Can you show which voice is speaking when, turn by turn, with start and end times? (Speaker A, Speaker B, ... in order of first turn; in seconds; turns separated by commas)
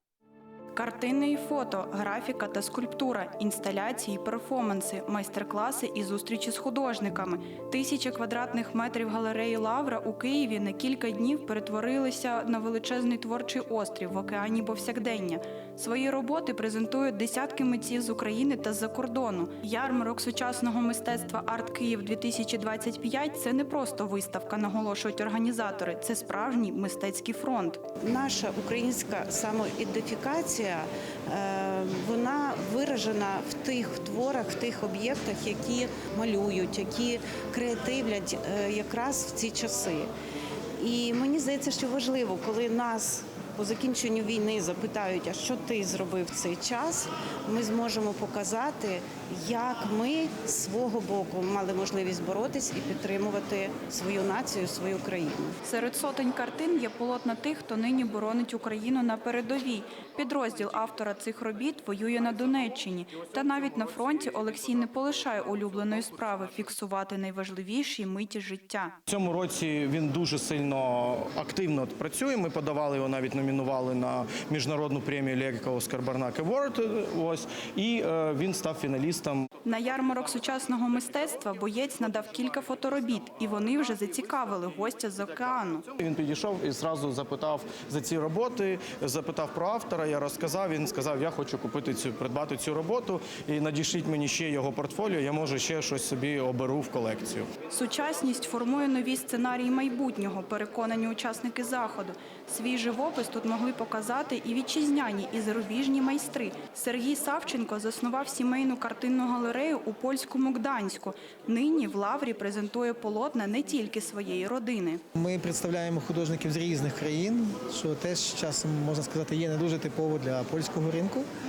Speaker A: 0.8-27.8, Speaker B: 28.0-40.1, Speaker B: 40.8-55.6, Speaker A: 55.6-69.0, Speaker C: 69.1-79.5, Speaker A: 79.7-85.9, Speaker C: 86.0-97.5, Speaker A: 97.7-115.0, Speaker D: 115.2-121.3